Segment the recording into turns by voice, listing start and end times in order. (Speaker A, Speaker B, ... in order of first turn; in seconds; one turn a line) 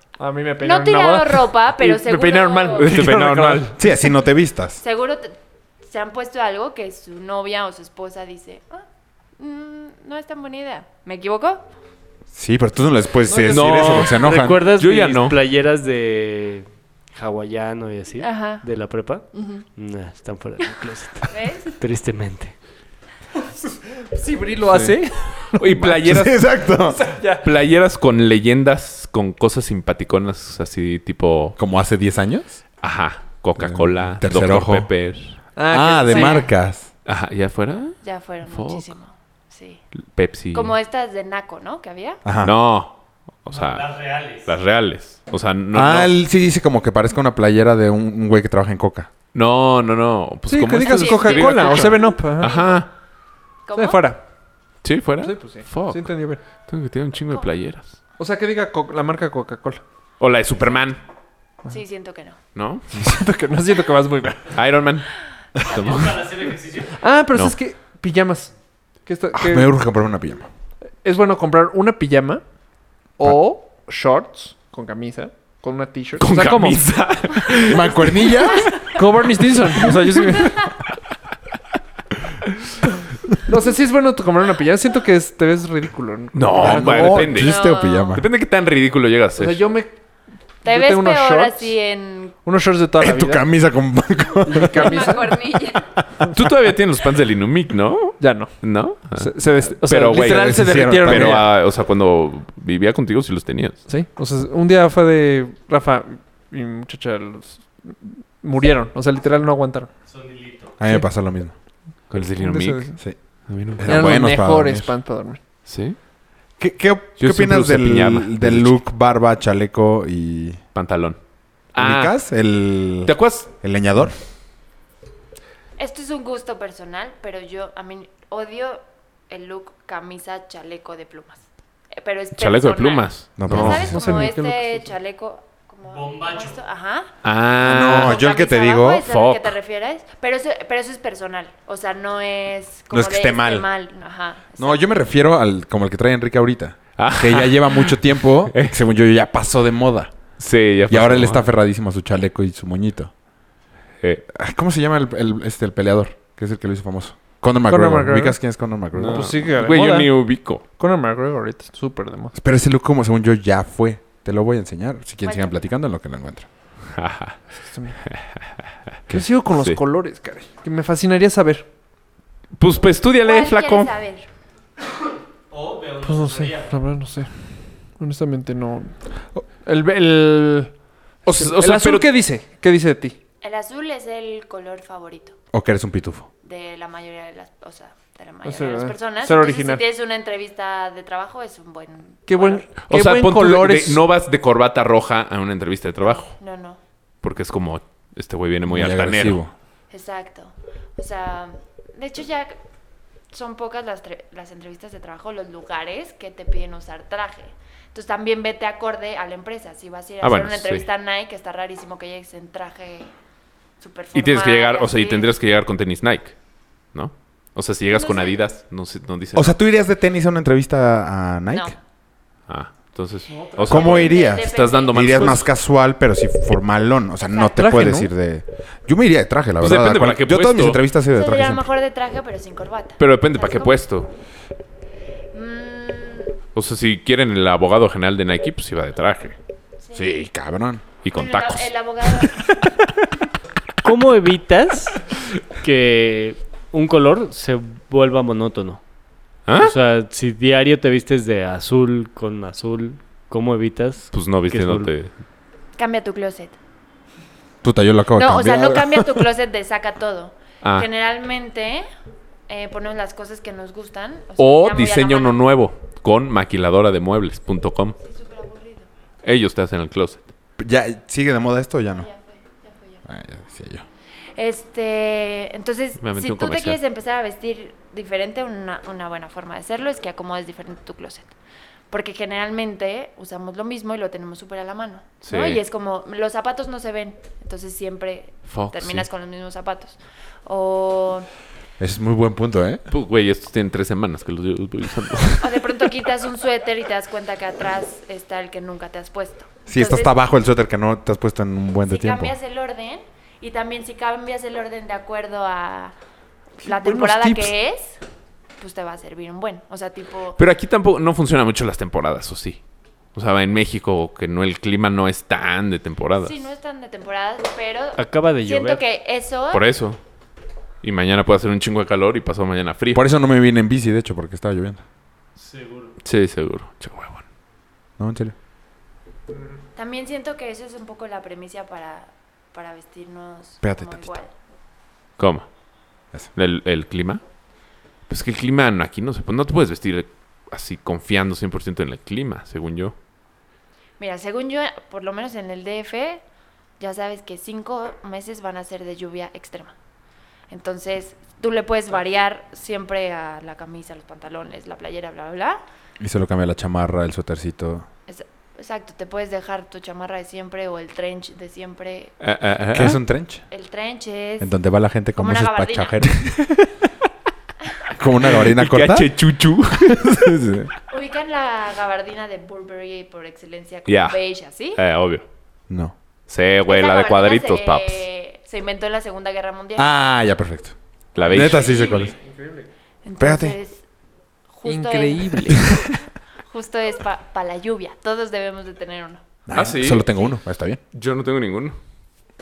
Speaker A: 0.2-3.9
Speaker B: 0.6-2.9
Speaker C: 2.8-3.8
Speaker D: 3.8-4.8
Speaker B: 4.8-8.8
Speaker B: 9.4-11.7
Speaker D: 12.3-14.6
Speaker A: 13.3-14.0
Speaker C: 13.4-15.4
Speaker E: 13.7-22.6
Speaker B: 18.2-18.6
Speaker B: 19.3-19.6
Speaker B: 21.3-21.8
Speaker A: 23.7-25.7
Speaker C: 25.5-26.4
Speaker D: 25.9-27.0
Speaker A: 26.9-27.5
Speaker C: 27.4-31.6
Speaker D: 31.6-32.6
Speaker C: 32.8-35.4
Speaker D: 33.6-34.9
Speaker A: 35.5-36.5
Speaker D: 35.7-36.9
Speaker B: 36.1-36.4
Speaker C: 37.0-38.9
Speaker B: 38.0-39.8
Speaker C: 40.1-40.7
Speaker B: 40.5-42.2
Speaker D: 42.2-42.5
Speaker C: 42.4-46.1
Speaker E: 43.7-44.5
Speaker D: 45.7-49.1
Speaker C: 49.3-52.9
Speaker A: 50.5-52.7
Speaker B: 50.8-52.9
Speaker B: 53.7-54.0
Speaker A: 53.7-54.2
Speaker C: 54.8-58.0
Speaker A: 55.2-56.4
Speaker A: 58.2-59.8
Speaker C: 60.2-61.0
Speaker B: 61.7-62.4
Speaker C: 62.5-62.9
Speaker A: 62.9-64.6
Speaker C: 64.5-66.6
Speaker E: 66.1-66.8
Speaker A: 66.9-69.7
Speaker D: 69.3-70.5
Speaker A: 71.0-72.4
Speaker A: 73.2-76.9
Speaker C: 76.2-78.8
Speaker D: 77.7-78.8
Speaker A: 78.9-80.6
Speaker C: 80.2-80.5
Speaker A: 83.5-87.4
Speaker C: 86.3-87.6
Speaker D: 86.6-88.3
Speaker B: 87.3-88.2
Speaker C: 88.1-89.7
Speaker A: 89.4-90.0
Speaker A: 90.6-91.7
Speaker B: 90.7-92.4
Speaker A: 92.4-93.5
Speaker D: 93.0-95.1
Speaker A: 94.5-95.4
Speaker B: 94.5-95.9
Speaker C: 96.3-103.8
Speaker A: 98.2-101.5
Speaker D: 100.1-101.5
Speaker A: 103.9-110.0
Speaker D: 110.8-111.5
Speaker C: 112.1-114.1
Speaker A: 112.2-113.0
Speaker D: 113.7-114.9
Speaker A: 113.8-115.4
Speaker C: 115.7-116.0
Speaker D: 116.6-120.6
Speaker C: 117.2-118.8
Speaker C: 120.7-121.2
Speaker C: 121.7-122.1
Speaker D: 121.8-124.2
Speaker C: 123.0-123.5
Speaker B: 125.8-137.1
Speaker C: 132.4-134.0
Speaker D: 133.4-134.3
Speaker A: 133.5-134.9
Speaker C: 137.2-138.2
Speaker D: 137.6-139.1
Speaker B: 137.9-144.9
Speaker C: 139.1-139.6
Speaker D: 142.9-143.7
Speaker D: 144.6-150.1
Speaker C: 147.0-148.8
Speaker C: 150.4-151.4
Speaker D: 150.9-153.1
Speaker D: 154.3-159.3
Speaker A: 157.7-158.4
Speaker C: 158.9-160.6
Speaker A: 159.1-162.3
Speaker D: 162.3-166.5
Speaker B: 165.2-165.6
Speaker C: 166.9-167.4
Speaker A: 167.7-168.0
Speaker C: 168.1-168.4
Speaker A: 169.1-171.7
Speaker C: 172.6-173.9
Speaker B: 173.2-174.3
Speaker E: 175.5-176.7
Speaker A: 176.0-179.0
Speaker A: 179.6-183.2
Speaker C: 181.2-182.1
Speaker B: 183.4-185.4
Speaker D: 185.5-186.3
Speaker B: 186.4-192.7
Speaker A: 188.4-189.8
Speaker A: 192.3-194.0
Speaker C: 192.9-196.3
Speaker B: 196.0-196.8
Speaker C: 197.2-199.4
Speaker D: 198.7-199.5
Speaker B: 199.9-202.6
Speaker B: 203.3-213.1
Speaker C: 210.2-210.9
Speaker B: 213.8-215.3
Speaker C: 214.1-216.4
Speaker C: 216.9-219.6
Speaker B: 217.9-218.4
Speaker D: 219.3-221.7
Speaker B: 221.5-221.8
Speaker C: 222.5-225.5
Speaker A: 223.3-223.7
Speaker B: 223.7-225.4
Speaker D: 223.7-231.7
Speaker B: 227.3-227.7
Speaker A: 227.6-228.1
Speaker C: 229.6-230.8
Speaker B: 231.1-233.9
Speaker C: 233.0-234.1
Speaker B: 235.3-236.3
Speaker C: 236.6-239.4
Speaker B: 239.8-240.1
Speaker D: 239.9-240.8
Speaker C: 241.0-242.3
Speaker B: 241.1-242.5
Speaker E: 243.8-245.0
Speaker E: 245.6-248.8
Speaker C: 249.5-249.7
Speaker E: 249.6-254.9
Speaker C: 254.1-255.1
Speaker B: 255.8-256.6
Speaker D: 257.6-259.3
Speaker B: 258.1-261.9
Speaker C: 260.6-260.9
Speaker B: 262.5-265.4
Speaker C: 264.4-268.0
Speaker B: 268.0-268.9
Speaker C: 269.2-270.3
Speaker D: 270.6-272.1
Speaker B: 271.9-273.0
Speaker D: 273.1-273.9
Speaker B: 274.4-281.3
Speaker C: 276.0-276.8
Speaker B: 281.9-291.3
Speaker C: 285.2-285.6
Speaker C: 288.5-289.1
Speaker D: 291.8-292.8
Speaker C: 292.9-295.6
Speaker B: 295.4-300.1
Speaker D: 299.7-302.4
Speaker B: 301.9-305.9
Speaker B: 306.6-308.0
Speaker A: 306.6-307.5
Speaker B: 308.6-310.4
Speaker C: 310.4-312.6
Speaker C: 313.1-316.4
Speaker B: 316.2-319.6
Speaker E: 318.0-318.8
Speaker C: 319.5-320.0
Speaker C: 320.8-323.0
Speaker D: 322.9-324.8
Speaker C: 326.0-327.2
Speaker D: 328.0-328.3
Speaker B: 329.8-334.3
Speaker D: 333.6-334.2
Speaker C: 335.2-335.5
Speaker C: 336.4-337.2
Speaker C: 338.1-342.9
Speaker B: 344.0-346.2
Speaker B: 346.8-349.7
Speaker B: 350.5-355.6
Speaker D: 356.0-357.9
Speaker B: 358.1-362.1
Speaker C: 362.2-363.0
Speaker D: 362.7-363.4
Speaker B: 363.5-364.5
Speaker D: 364.4-366.7
Speaker B: 365.2-366.0
Speaker D: 367.9-369.1
Speaker C: 368.3-370.4
Speaker D: 369.8-370.7
Speaker B: 370.9-374.8
Speaker C: 373.9-374.2
Speaker C: 374.7-375.2
Speaker D: 375.7-375.9
Speaker C: 376.3-378.1
Speaker B: 376.7-379.9
Speaker D: 379.8-382.1
Speaker C: 381.1-382.1
Speaker A: 381.4-382.7
Speaker B: 381.4-382.1
Speaker B: 383.1-383.8
Speaker D: 383.2-383.6
Speaker B: 384.5-385.8
Speaker A: 384.6-385.9
Speaker B: 386.5-389.2
Speaker D: 389.5-390.8
Speaker C: 389.5-390.1
Speaker C: 390.9-391.8